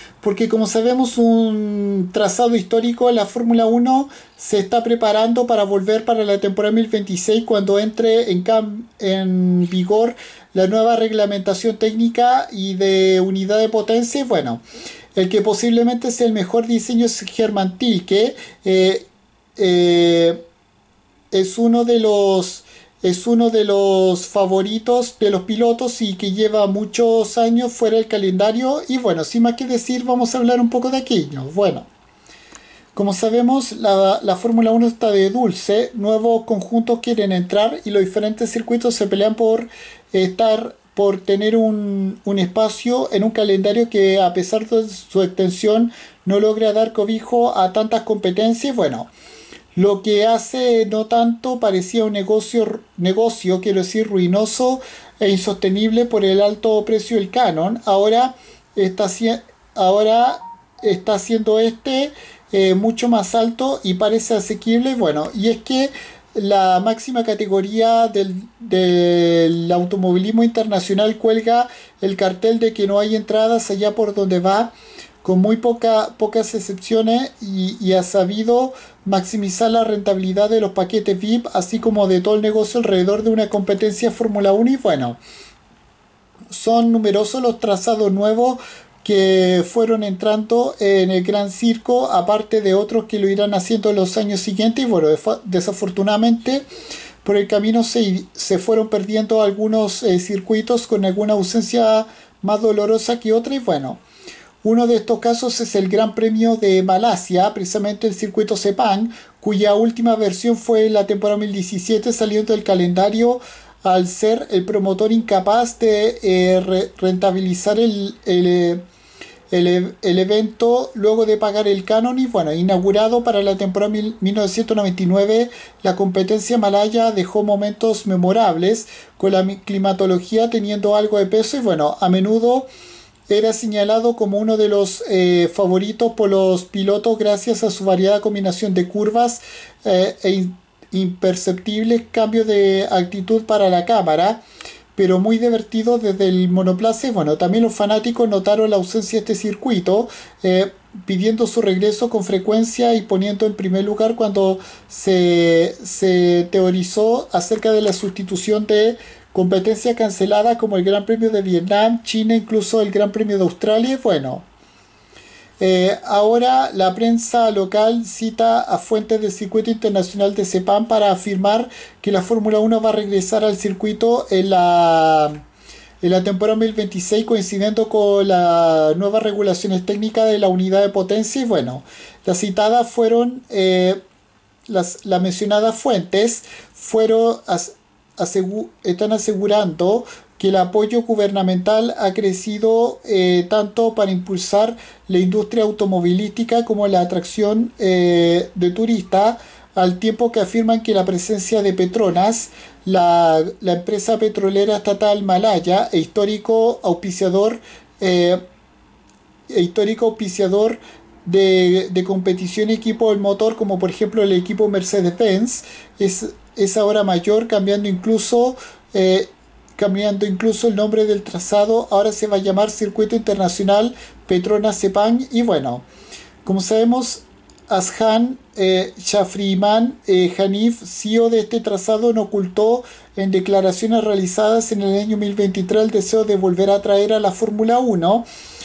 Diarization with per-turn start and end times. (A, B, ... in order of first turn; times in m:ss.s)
0:00.2-0:14.6 A
0:15.1-0:20.4 A
0:21.3-0:31.9 A
0:32.9-0:49.1 A
0:49.7-1:14.7 A
1:15.2-1:25.2 A
1:26.5-1:36.6 A
1:37.2-1:44.0 A
1:44.6-1:58.8 A
1:59.5-2:12.6 A
2:13.3-2:24.4 A
2:25.0-2:44.4 A
2:45.6-2:55.4 A
2:56.0-3:04.0 A
3:04.7-3:28.4 A
3:29.5-3:45.8 A
3:46.4-3:58.2 A